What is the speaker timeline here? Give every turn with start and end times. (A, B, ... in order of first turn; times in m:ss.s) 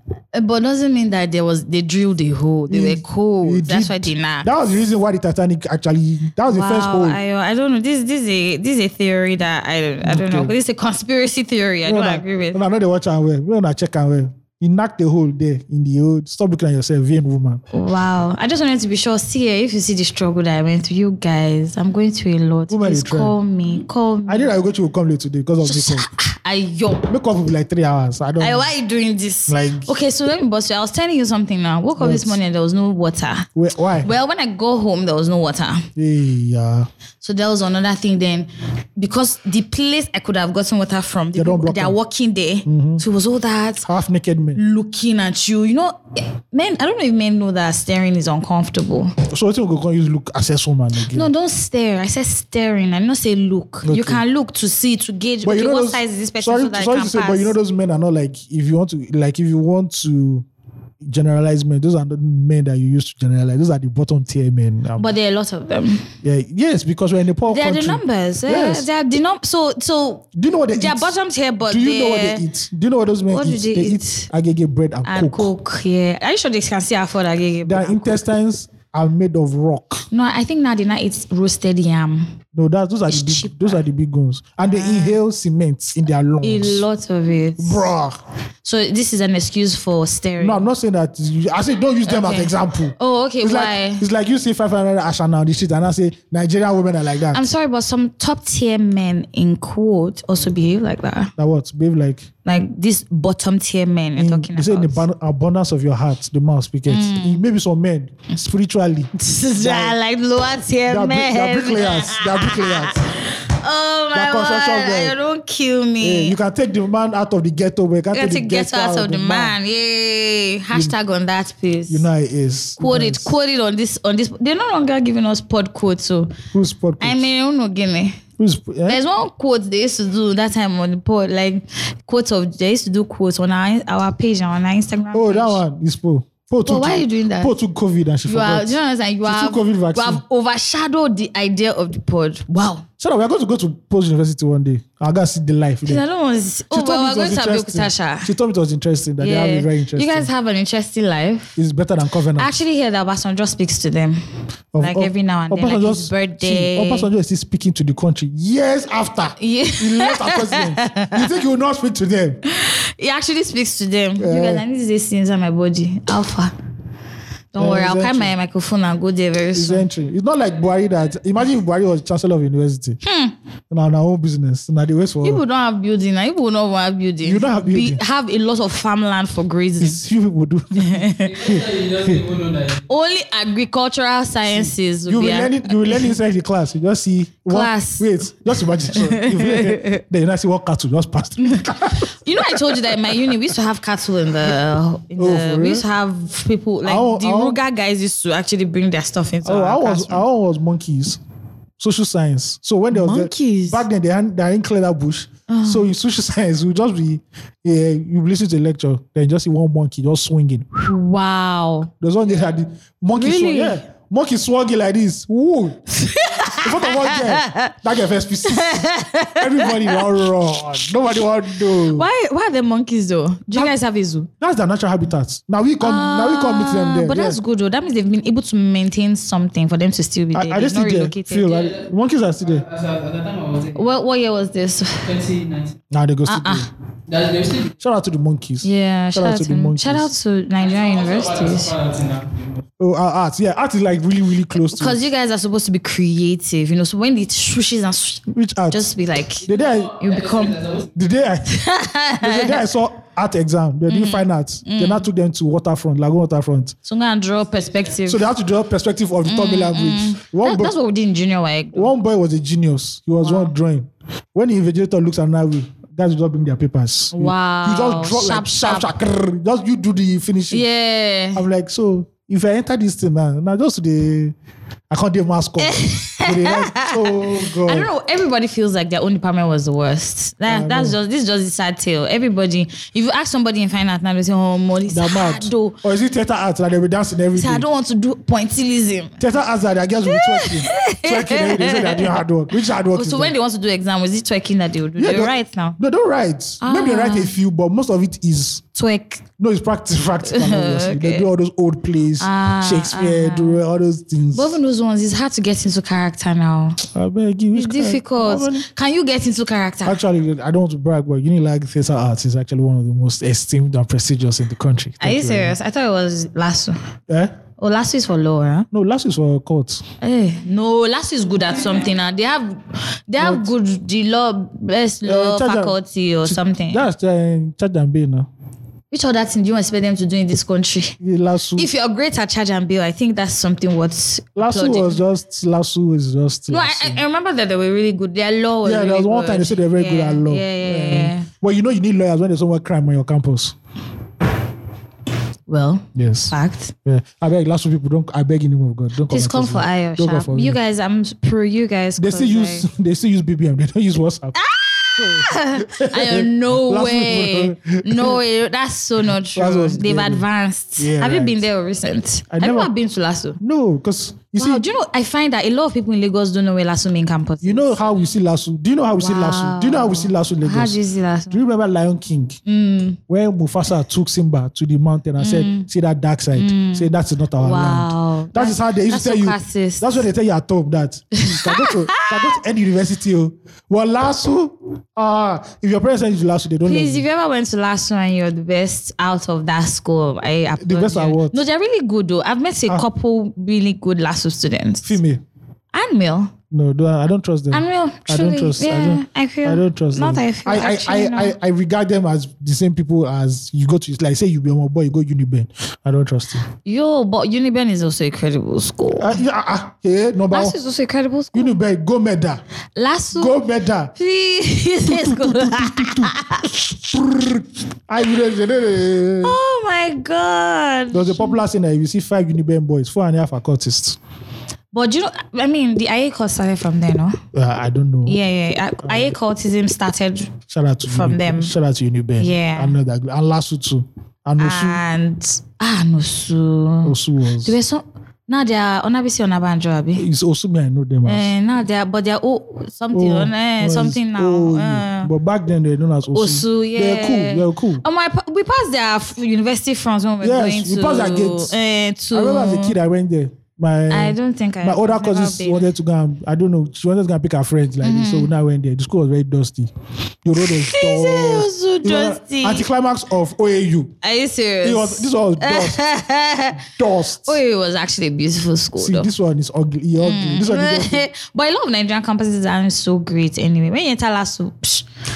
0:00.3-0:04.5 A
0:02.7-0:07.2 B
0:06.5-0:12.6 A
0:10.0-0:10.6 B
0:11.8-0:17.6 B
0:17.7-0:24.5 A
0:22.7-0:23.4 B
0:24.3-0:26.1 B
0:25.6-0:27.1 A
0:27.1-0:28.7 B
0:28.4-0:33.5 A
0:29.5-0:29.9 B
0:32.0-0:32.4 B
0:33.6-0:34.1 B
0:34.0-0:35.9 A
0:36.0-0:36.9 B
0:37.2-0:43.9 A
0:41.3-0:42.0 B
0:42.7-0:43.0 B
0:43.8-0:44.6 B
0:44.6-0:49.2 A
0:49.3-0:51.3 B
0:51.1-0:57.5 A
0:53.8-0:54.2 B
0:55.4-1:00.4 B
1:01.0-1:05.1 B
1:05.0-1:06.1 A
1:06.2-1:08.9 B
1:07.5-1:12.4 A
1:10.4-1:11.1 B
1:11.6-1:15.5 B
1:13.3-1:14.3 A
1:15.0-1:18.2 A
1:17.6-1:20.1 B
1:20.1-1:22.4 A
1:22.5-1:26.8 B
1:23.1-1:23.8 A
1:24.7-1:25.2 A
1:26.4-1:27.9 A
1:27.6-1:28.2 B
1:28.6-1:30.6 A
1:30.4-1:37.5 B
1:32.1-1:34.1 A
1:37.3-1:41.3 A
1:41.4-1:42.3 B
1:42.5-1:45.0 A
1:44.2-1:50.0 B
1:46.9-1:47.4 A
1:49.2-1:56.4 A
1:50.9-1:53.0 B
1:54.1-1:55.2 B
1:56.0-1:59.6 B
1:58.1-2:02.1 A
2:01.9-2:03.3 B
2:02.8-2:06.3 A
2:06.5-2:07.3 B
2:07.0-2:08.2 A
2:08.4-2:09.0 B
2:08.9-2:15.6 A
2:15.1-2:20.2 B
2:16.6-2:17.6 A
2:18.3-2:22.8 A
2:23.0-2:26.0 B
2:25.8-2:28.3 A
2:26.7-2:30.3 B
2:29.2-2:31.6 A
2:31.6-2:32.5 B
2:32.4-2:34.2 A
2:34.7-2:42.4 B
2:34.8-2:37.1 A
2:39.4-2:41.2 A
2:42.5-2:46.5 A
2:44.2-2:44.6 B
2:47.5-2:49.8 A
2:47.6-2:48.3 B
2:49.5-2:53.0 B
2:53.0-2:53.3 A
2:53.7-2:55.4 B
2:55.2-3:00.0 A
2:57.2-2:58.0 B
2:59.8-3:02.2 B
3:00.8-3:01.4 A
3:01.3-3:02.8 C
3:02.9-3:06.1 A
3:04.5-3:13.3 B
3:07.5-3:08.3 A
3:08.9-3:10.0 A
3:11.4-3:20.2 A
3:15.2-3:15.8 B
3:16.8-3:17.6 B
3:19.4-3:21.2 B
3:21.8-3:30.9 B
3:22.9-3:23.8 A
3:25.5-3:25.9 A
3:30.9-3:31.9 A
3:32.0-3:35.8 B
3:33.1-3:33.8 A
3:35.9-3:37.7 A
3:36.6-3:42.1 B
3:38.5-3:40.2 A
3:41.9-3:44.3 A
3:44.4-3:47.4 B
3:45.8-3:51.6 A
3:50.3-3:52.6 B
3:51.5-3:51.8 C
3:52.4-3:53.8 C
3:53.8-3:55.1 A
3:55.0-3:55.8 C
3:55.9-3:56.7 B
3:56.3-3:56.7 A
3:57.1-3:57.8 C
3:57.8-4:00.1 B
3:58.6-4:01.7 A
4:00.6-4:02.6 C
4:02.8-4:05.0 B
4:04.5-4:10.6 A
4:08.3-4:08.9 B
4:09.4-4:10.0 B
4:09.5-4:10.9 C
4:11.0-4:11.6 B
4:11.5-4:12.6 A
4:12.2-4:16.8 B
4:13.9-4:15.1 A
4:16.8-4:18.3 A
4:18.0-4:20.7 B
4:19.2-4:21.9 A
4:21.7-4:30.6 B
4:23.2-4:23.5 A
4:27.1-4:28.9 A
4:30.5-4:31.4 A
4:31.3-4:34.4 B
4:34.9-4:37.9 B
4:35.6-4:45.8 A
4:40.5-4:41.0 B
4:44.9-4:47.7 B
4:47.3-4:49.2 A
4:49.2-4:53.3 B
4:50.1-4:52.2 A
4:52.9-4:55.8 A
4:55.0-4:58.6 B
4:56.6-4:57.3 A
4:58.8-4:59.2 A
4:59.4-5:04.6 B
5:00.2-5:01.3 A
5:02.2-5:03.6 A
5:04.3-5:06.8 A
5:06.8-5:08.7 B
5:07.5-5:10.0 A
5:09.8-5:15.6 B
5:15.0-5:16.8 A
5:17.6-5:18.7 A
5:18.7-5:19.8 B
5:20.0-5:26.9 A
5:23.2-5:23.5 B
5:25.0-5:28.3 B
5:28.9-5:31.0 A
5:31.0-5:31.7 B
5:31.6-5:35.0 A
5:34.4-5:37.0 B
5:36.5-5:41.3 A
5:38.6-5:43.6 B
5:45.5-5:46.7 A
5:46.0-5:46.4 B
5:46.9-5:50.6 B
5:49.1-5:52.7 A
5:52.0-5:54.4 B
5:54.3-6:03.4 A
5:55.0-5:58.2 B
5:59.3-6:00.3 B
6:00.8-6:01.4 B
6:02.3-6:02.7 B
6:03.4-6:04.7 B
6:04.4-6:07.8 A
6:07.4-6:10.8 B
6:09.0-6:11.4 A
6:11.3-6:12.4 B
6:12.5-6:13.0 A
6:13.1-6:27.0 B
6:15.2-6:15.7 A
6:16.3-6:20.1 A
6:21.2-6:22.4 A
6:26.6-6:35.0 A
6:30.6-6:31.4 B
6:34.8-6:35.2 B
6:35.7-6:36.3 A
6:36.5-6:46.5 B
6:37.5-6:41.4 A
6:46.6-6:49.2 A
6:49.0-6:50.6 B
6:50.3-6:51.6 A
6:51.3-6:52.4 B
6:52.8-6:53.4 A
6:53.1-6:53.9 B
6:54.0-6:56.5 A
6:54.8-6:59.4 B
6:59.2-7:01.4 A
7:00.9-7:04.0 B
7:04.7-7:07.2 A
7:07.3-7:08.2 B
7:08.1-7:11.5 A
7:08.8-7:09.2 B
7:10.5-7:14.8 B
7:12.2-7:12.8 A
7:14.4-7:20.1 A
7:16.8-7:17.6 B
7:20.0-7:21.3 B
7:21.1-7:25.1 A
7:22.9-7:27.8 B
7:26.2-7:32.8 A
7:30.2-7:31.6 B
7:32.1-7:39.7 B
7:33.9-7:35.7 A
7:37.8-7:38.3 A
7:40.2-7:43.9 B
7:40.4-7:42.7 A
7:44.0-7:46.6 A
7:44.6-7:45.8 B
7:46.6-7:47.4 B
7:47.2-7:49.1 A
7:48.8-7:51.1 B
7:50.0-7:54.9 A